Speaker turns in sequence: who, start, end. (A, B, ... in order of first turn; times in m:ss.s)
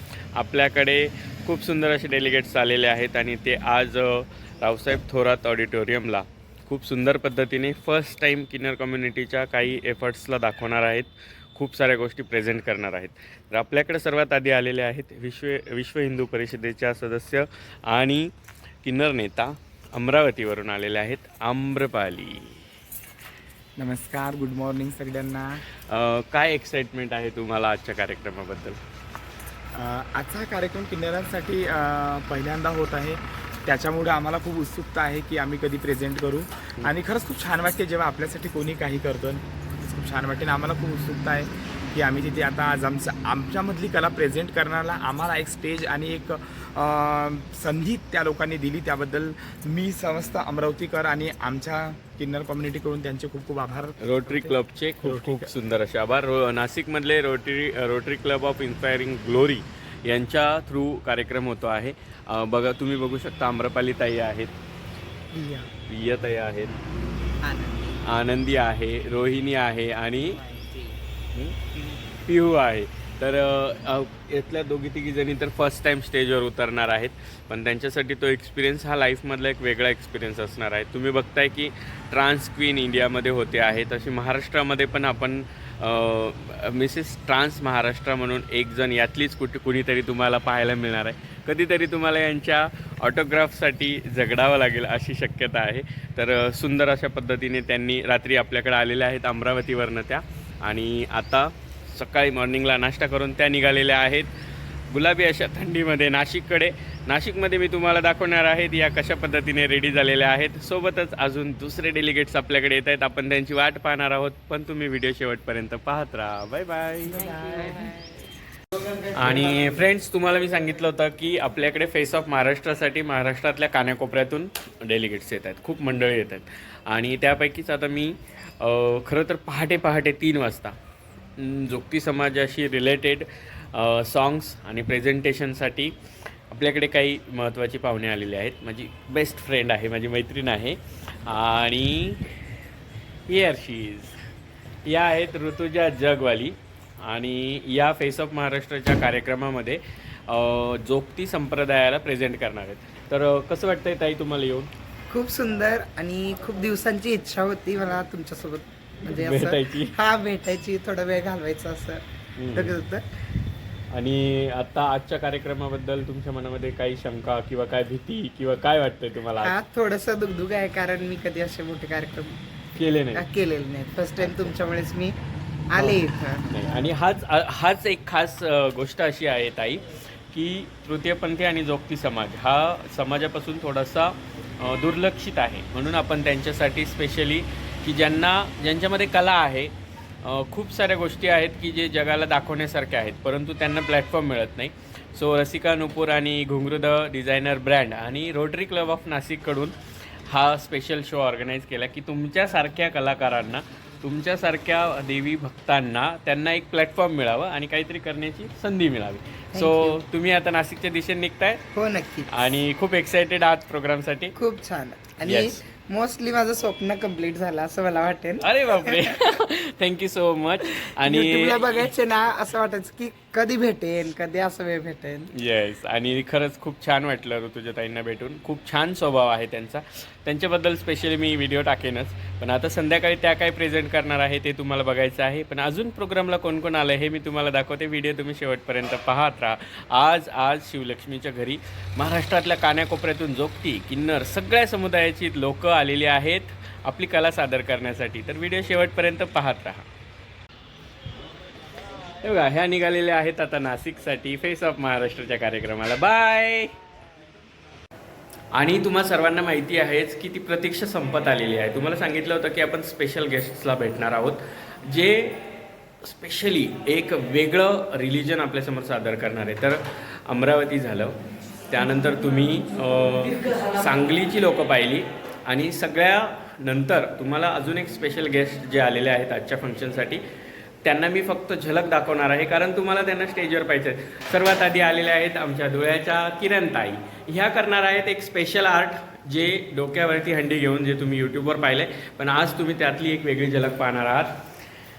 0:00.4-0:18.3 A
0:18.8-0:22.6 A
0:23.8-0:25.6 B
0:25.9-0:28.8 A
0:29.7-0:55.5 B
0:54.0-1:04.5 A
1:05.3-1:05.7 C
1:05.9-1:06.8 A
1:07.4-1:08.0 C
1:08.0-1:10.4 A
1:10.2-1:11.0 C
1:12.3-1:44.3 A
1:44.9-1:57.6 A
1:57.3-1:57.9 C
1:58.8-1:59.1 C
1:59.1-2:10.8 A
2:11.4-2:15.9 A
2:16.5-2:22.3 A
2:23.3-2:24.2 A
2:24.8-2:34.7 A
2:35.1-2:43.0 C
2:39.1-2:39.9 A
2:42.4-2:42.7 A
2:43.9-2:49.6 A
2:49.4-2:52.4 C
2:52.8-2:53.2 A
2:53.1-2:55.2 C
2:54.2-2:54.6 A
2:55.7-2:56.9 C
2:55.8-3:31.6 A
3:29.5-3:30.0 C
3:31.7-3:32.3 C
3:32.3-3:34.3 A
3:34.4-3:39.4 C
3:35.2-3:35.6 A
3:38.4-3:41.9 A
3:41.0-3:45.3 C
3:45.3-4:09.9 A
4:12.2-4:16.7 A
4:18.5-4:25.4 A
4:26.0-4:31.2 A
4:31.7-4:40.2 A
4:40.8-4:54.3 A